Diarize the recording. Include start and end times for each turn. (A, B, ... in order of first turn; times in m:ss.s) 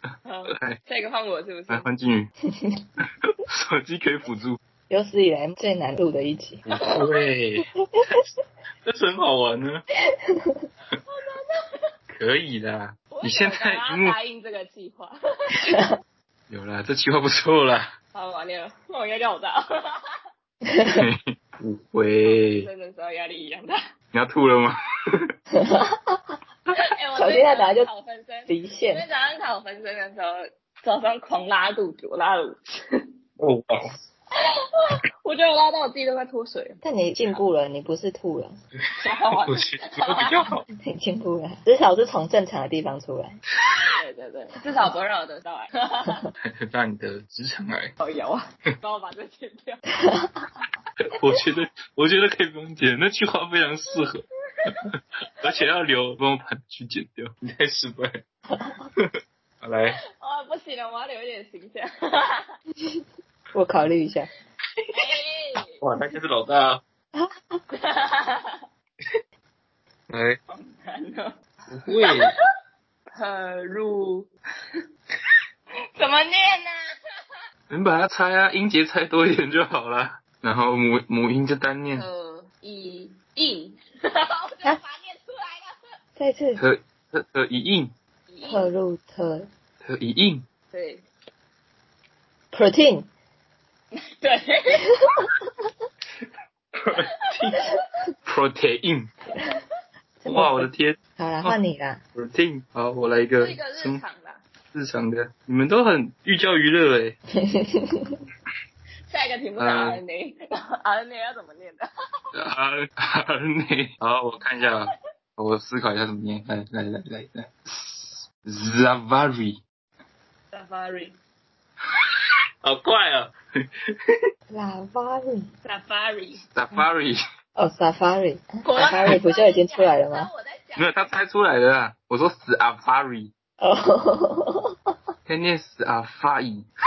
0:00.3-0:01.9 A
0:00.5-0:00.8 B
0:01.7-0:02.3 B
0:02.5-0:02.8 C
0:03.2-0:04.6 B
0:04.9-0:06.6 C
0:06.7-0:07.7 B
0:06.8-0:07.0 A
0:07.8-0:08.2 C
0:08.8-0:09.8 B
0:10.1-0:10.7 C
0:11.1-0:11.9 A
0:12.1-0:14.2 B
0:13.1-0:15.7 A
0:15.6-0:16.0 C
0:16.5-0:17.9 B
0:18.1-0:20.2 A
0:20.6-0:21.1 C
0:20.9-0:22.7 B
0:22.2-0:23.8 A
0:24.1-0:25.2 B
0:25.5-0:26.4 C
0:26.8-0:33.0 A
0:27.2-0:27.9 C
0:28.5-0:29.0 C
0:33.4-0:33.9 B
0:34.4-0:36.8 A
0:36.8-0:38.6 C
0:39.0-0:40.4 A
0:39.4-0:40.6 B
0:40.8-0:43.4 C
0:43.6-0:46.3 A
0:46.4-0:47.9 B
0:48.0-0:49.8 A
0:50.0-0:50.5 C
0:51.0-0:58.2 B
0:58.5-0:58.9 C
0:59.0-1:00.0 B
1:00.2-1:02.5 A
1:02.8-1:04.3 C
1:04.9-1:05.8 A
1:05.8-1:06.8 B
1:07.1-1:07.6 C
1:07.7-1:08.6 A
1:10.1-1:10.4 B
1:10.5-1:11.4 A
1:11.7-1:12.4 B
1:11.9-1:12.3 A
1:13.2-1:14.8 A
1:16.0-1:17.4 A
1:17.7-1:22.1 B
1:21.9-1:26.0 A
1:26.2-1:26.6 C
1:26.6-1:27.9 B
1:28.3-1:28.7 A
1:28.4-1:29.5 C
1:29.8-1:30.4 B
1:30.7-1:31.0 A
1:32.5-1:33.1 C
1:33.9-1:35.0 A
1:34.9-1:35.2 C
1:36.8-1:37.6 B
1:37.0-1:37.8 A
1:38.2-1:39.1 B
1:40.2-1:42.0 C
1:40.3-1:41.6 B
1:42.2-1:44.0 B
1:43.4-1:44.4 A
1:44.7-1:47.2 B
1:47.3-1:48.2 C
1:49.1-1:51.9 A
1:49.6-1:50.0 B
1:52.3-1:59.6 B
2:00.5-2:01.2 A
2:02.6-2:04.2 B
2:04.5-2:05.5 C
2:05.6-2:06.4 A
2:06.6-2:07.2 B
2:07.6-2:10.3 C
2:08.6-2:11.1 A
2:10.8-2:13.3 B
2:13.6-2:14.9 C
2:15.3-2:16.7 B